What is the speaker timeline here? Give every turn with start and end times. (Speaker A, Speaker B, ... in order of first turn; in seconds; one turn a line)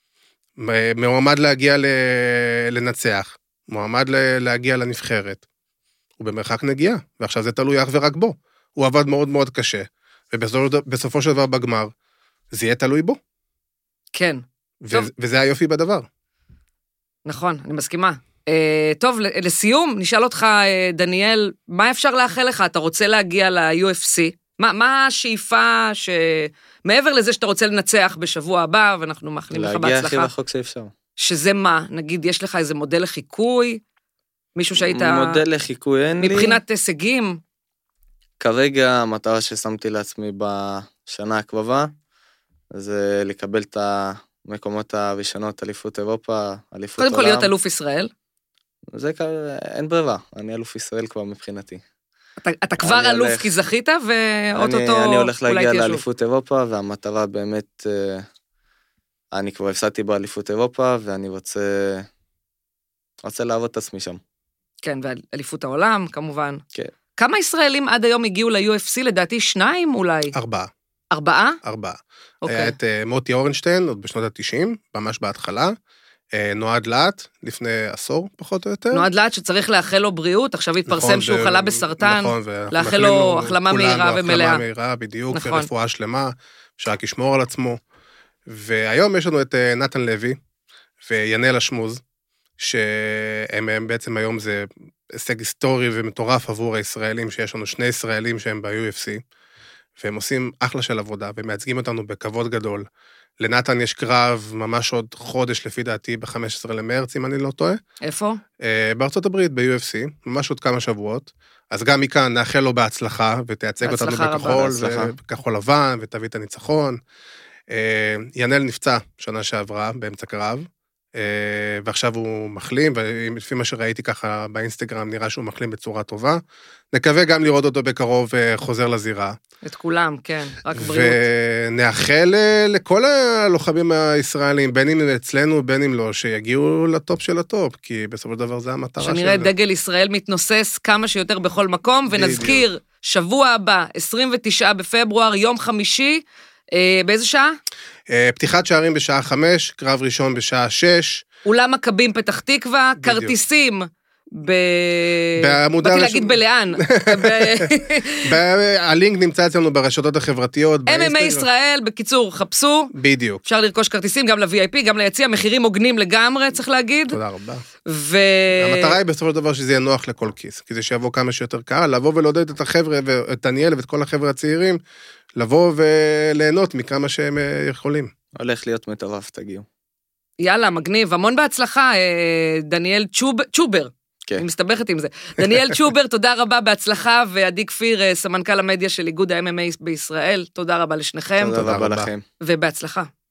Speaker A: 0.6-5.4
Speaker A: 6.2-11.9
Speaker A: 12.5-13.2
Speaker B: 14.1-15.1
Speaker A: 14.8-16.1
Speaker B: 17.3-30.3
Speaker C: 29.5-30.9
Speaker B: 31.2-33.8
Speaker B: 34.6-35.4
Speaker C: 34.8-36.6
Speaker B: 36.2-37.4
Speaker C: 38.4-41.9
Speaker C: 42.7-47.5
Speaker B: 47.0-48.1
Speaker C: 48.9-51.8
Speaker B: 52.4-56.0
Speaker C: 52.8-53.5
Speaker C: 54.6-58.3
Speaker C: 59.3-62.1
Speaker C: 63.2-64.2
Speaker B: 64.8-66.6
Speaker B: 67.2-70.3
Speaker A: 70.3-70.7
Speaker B: 71.1-71.6
Speaker A: 71.6-75.8
Speaker B: 72.4-72.8
Speaker A: 76.3-79.1
Speaker B: 78.9-84.6
Speaker A: 80.9-87.8
Speaker B: 85.3-85.7
Speaker A: 88.5-90.4
Speaker A: 91.0-92.0
Speaker A: 92.6-99.2
Speaker A: 100.0-102.9
Speaker A: 103.4-107.8
Speaker B: 108.0-108.4
Speaker A: 108.6-117.0
Speaker B: 113.8-115.0
Speaker A: 117.7-126.4
Speaker A: 126.9-129.4
Speaker B: 129.6-131.2
Speaker A: 130.8-139.5
Speaker B: 139.0-147.6
Speaker A: 142.1-142.7
Speaker A: 148.1-151.2
Speaker B: 151.5-158.4
Speaker A: 153.0-153.3
Speaker A: 155.4-157.7
Speaker A: 158.2-161.5
Speaker B: 160.9-162.9
Speaker A: 162.9-163.4
Speaker B: 163.4-167.2
Speaker A: 167.1-167.6
Speaker B: 167.9-169.0
Speaker A: 168.6-174.8
Speaker A: 175.3-178.1
Speaker C: 178.3-179.7
Speaker B: 180.4-191.6
Speaker C: 191.4-192.2
Speaker A: 191.6-192.1
Speaker B: 192.4-193.1